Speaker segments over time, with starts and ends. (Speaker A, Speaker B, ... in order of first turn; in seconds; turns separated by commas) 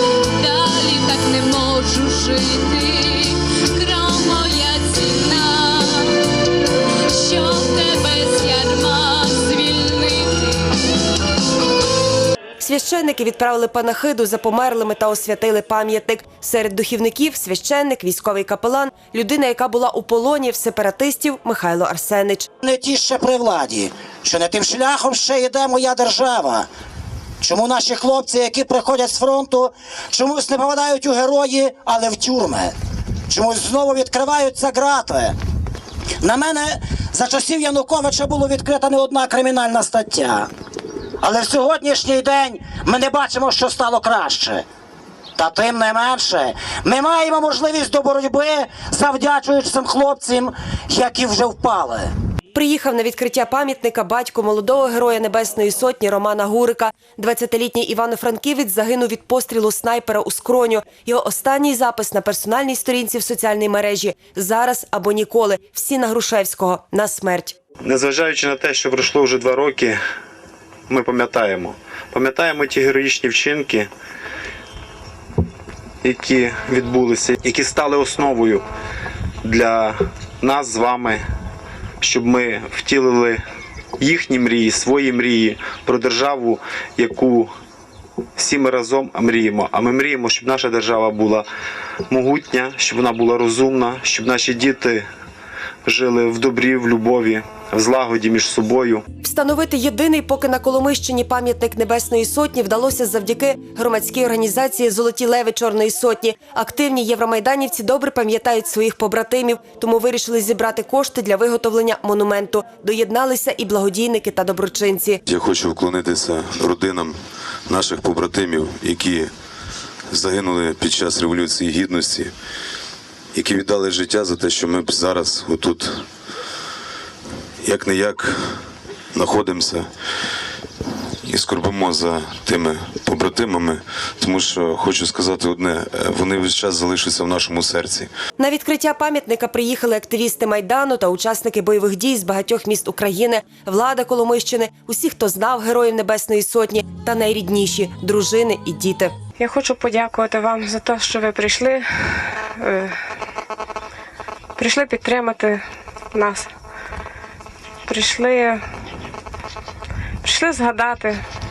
Speaker A: 0.4-6.2, Speaker A: 7.1-10.5, Speaker B: 12.6-22.5, Speaker C: 22.6-26.7, Speaker C: 27.4-32.7, Speaker C: 33.3-35.3, Speaker C: 36.2-40.5, Speaker C: 41.2-44.6, Speaker C: 45.4-52.1, Speaker B: 52.5-67.6, Speaker D: 67.8-70.0, Speaker D: 70.9-73.9, Speaker D: 76.0-78.6, Speaker D: 79.4-81.2, Speaker D: 82.0-83.4, Speaker D: 84.0-87.5, Speaker D: 88.4-91.5, Speaker D: 92.1-95.0, Speaker D: 95.8-99.0, Speaker B: 99.2-115.2, Speaker E: 115.3-117.2, Speaker E: 117.7-119.3, Speaker E: 120.1-122.3, Speaker E: 123.3-126.0, Speaker E: 127.6-128.4, Speaker E: 129.1-129.8, Speaker E: 131.2-138.1, Speaker B: 138.4-149.1, Speaker F: 149.4-151.8, Speaker F: 152.6-152.9, Speaker F: 154.6-155.6, Speaker F: 156.1-156.4, Speaker F: 157.9-158.6, Speaker F: 160.2-161.2